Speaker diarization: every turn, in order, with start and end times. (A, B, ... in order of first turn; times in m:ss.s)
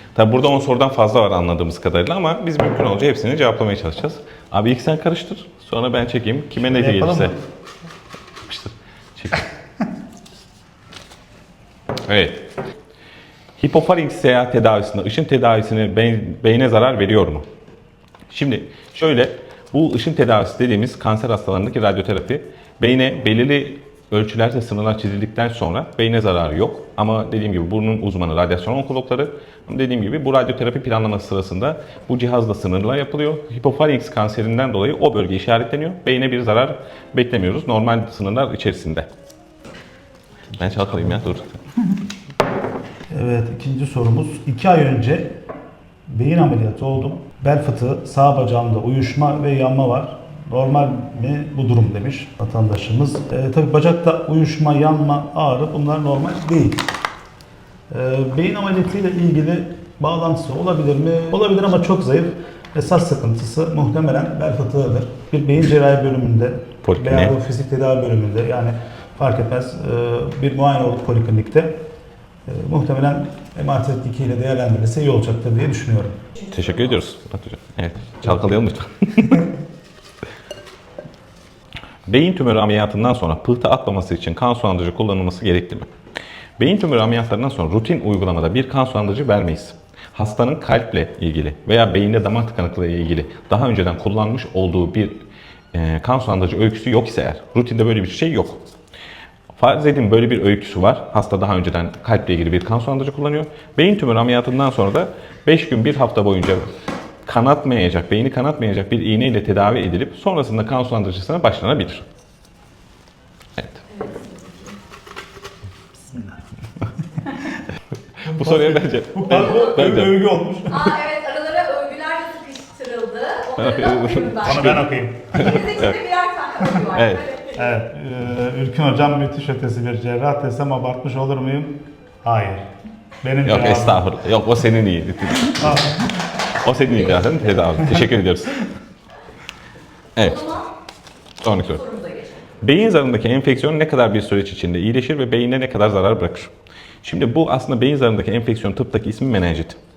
0:00.1-0:07.3 A
0:06.6-0:07.4 B
0:08.4-0:09.4 A
0:12.1-0:12.5 A
0:13.6-0:17.4 A
0:18.3-0:39.1 A
0:40.5-0:41.5 A
0:43.1-0:45.3 B
0:46.1-0:56.8 B
0:57.9-1:11.7 B
1:06.8-1:07.3 A
1:12.5-1:16.2 B
1:16.5-1:19.5 A
1:22.1-1:25.9 A
1:26.6-1:38.6 A
1:39.5-1:46.7 A
1:47.2-1:52.0 A
1:53.6-1:53.8 A
1:53.9-1:54.8 C
1:58.2-2:00.1 A
1:58.3-2:00.9 B
2:00.7-2:07.8 C
2:03.6-2:04.8 A
2:04.4-2:05.8 B
2:05.4-2:05.8 A
2:06.9-2:07.2 A
2:07.5-2:12.7 B
2:13.2-2:14.1 B
2:13.4-2:15.9 A
2:16.6-2:18.6 A
2:20.2-2:20.5 A
2:20.2-2:20.7 C
2:21.4-2:21.8 A
2:21.7-2:22.5 C
2:22.6-2:26.5 A
2:27.0-2:29.8 A